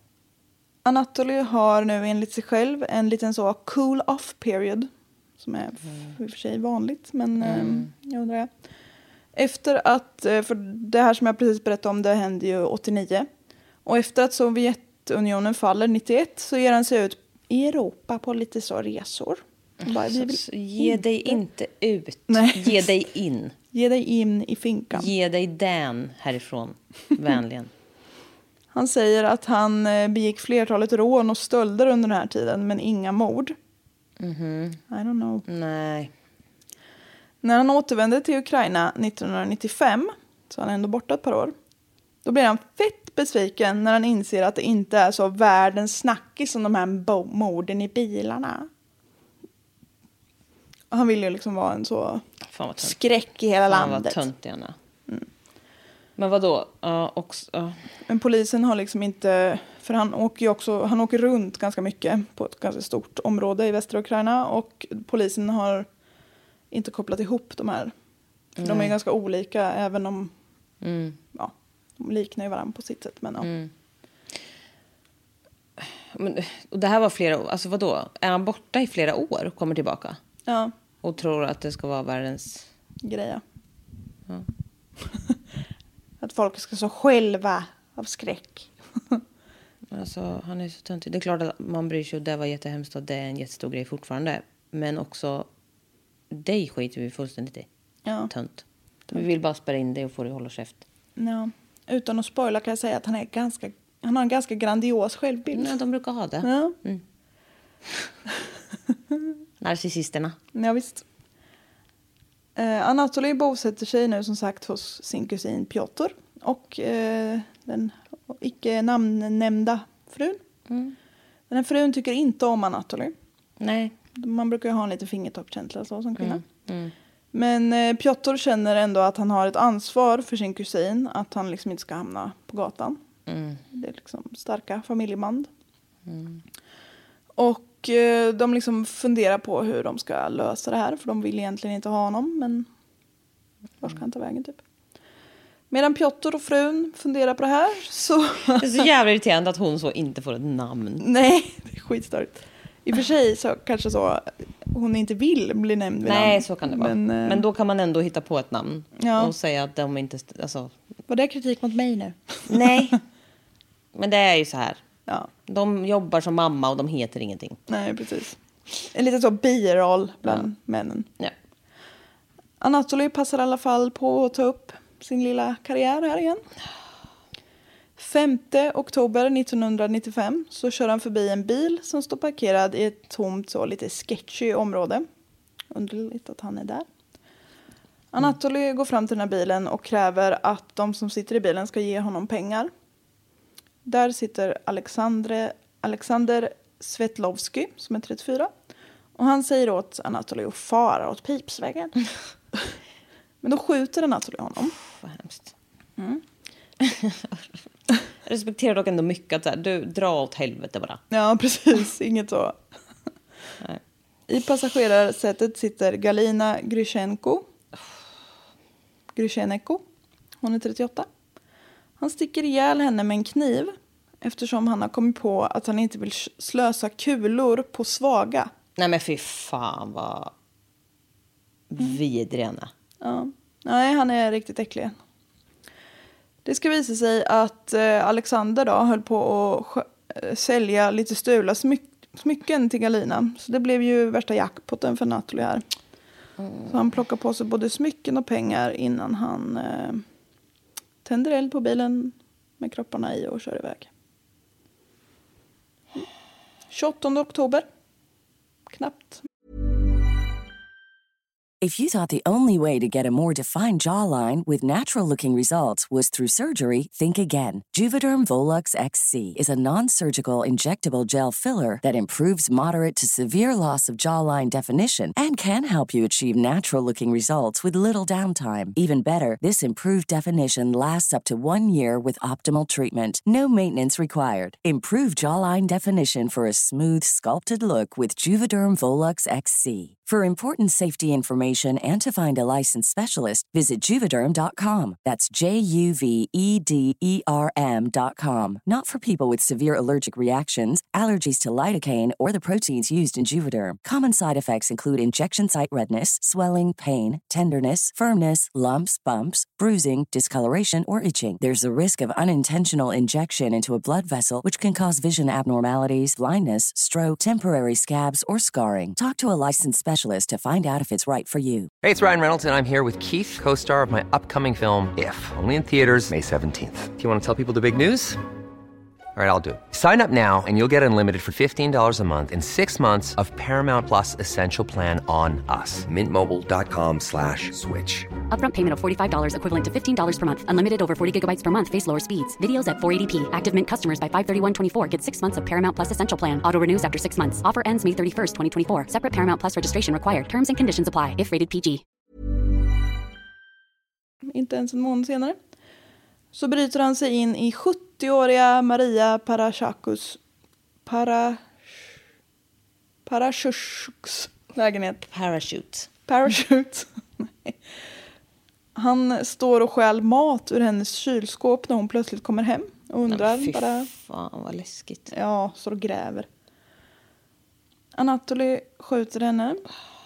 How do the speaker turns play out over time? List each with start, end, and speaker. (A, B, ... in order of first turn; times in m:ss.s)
0:00.8-0:08.5 A
0:07.4-0:07.9 B
0:09.4-0:13.3 A
0:13.8-0:21.4 A
0:19.8-0:23.5 B
0:22.3-0:23.0 A
0:23.7-0:25.1 A
0:24.9-0:27.7 B
0:28.7-0:33.6 A
0:34.2-0:34.8 B
0:34.9-0:35.4 A
0:35.5-0:36.1 B
0:37.4-0:41.6 A
0:42.2-0:48.7 A
0:50.9-0:52.2 A
0:52.5-0:53.0 B
0:52.8-0:54.2 A
0:53.7-0:54.8 B
0:56.2-0:57.8 B
0:58.1-1:05.9 A
1:06.7-1:07.9 A
1:08.6-1:09.0 B
1:08.6-1:10.3 A
1:10.8-1:11.2 B
1:11.4-1:13.5 A
1:13.4-1:13.7 B
1:15.8-1:20.2 B
1:20.5-1:20.7 A
1:21.0-1:22.7 B
1:23.0-1:23.4 A
1:26.2-1:29.2 A
1:29.9-1:35.5 B
1:36.3-1:37.7 B
1:38.1-1:38.3 A
1:38.3-1:40.8 B
1:41.2-1:45.8 A
1:45.5-1:47.0 B
1:46.4-1:46.8 A
1:49.6-1:50.4 B
1:50.5-1:51.0 A
1:52.6-2:00.4 A
2:00.7-2:01.0 B
2:01.5-2:03.1 A
2:03.6-2:04.0 B
2:04.2-2:06.4 A
2:06.2-2:06.9 B
2:07.3-2:13.0 A
2:13.3-2:13.6 B
2:13.7-2:15.5 A
2:16.1-2:16.4 B
2:17.4-2:22.7 A
2:23.8-2:24.6 A
2:25.7-2:28.9 A
2:28.6-2:31.0 B
2:31.0-2:37.4 A
2:36.0-2:40.7 B
2:39.0-2:39.3 A
2:41.1-2:42.8 A
2:42.5-2:43.0 B
2:44.0-2:44.8 B
2:45.5-2:47.6 B
2:47.7-2:48.4 A
2:48.9-2:51.1 A
2:52.6-2:56.4 A
2:58.0-3:05.1 A
3:05.7-3:06.9 A
3:08.1-3:12.7 A
3:13.9-3:18.5 A
3:19.2-3:22.0 A
3:23.4-3:24.7 A
3:24.9-3:25.5 B
3:26.8-3:27.5 B
3:28.2-3:31.0 B
3:31.1-3:32.6 A
3:34.3-3:37.4 A
3:39.2-3:39.8 A
3:40.4-3:41.1 A
3:42.0-3:48.5 A
3:48.8-3:50.3 B
3:51.7-3:52.7 B
3:53.0-3:55.0 A
3:56.4-4:05.6 A
4:06.4-4:06.7 B
4:06.7-4:10.0 A
4:11.0-4:13.9 A
4:16.7-4:17.7 A
4:18.7-4:19.2 A
4:21.6-5:21.7 C
5:21.8-5:28.2 D
5:29.2-5:38.1 D
5:38.3-5:51.8 E
5:54.3-5:55.4 A
5:56.3-6:00.2 A
6:00.9-6:01.4 A
6:03.1-6:05.1 A
6:05.1-6:05.9 B
6:06.1-6:07.6 A
6:08.8-6:13.9 A
6:13.1-6:15.1 B
6:15.1-6:16.3 A
6:18.0-6:19.6 A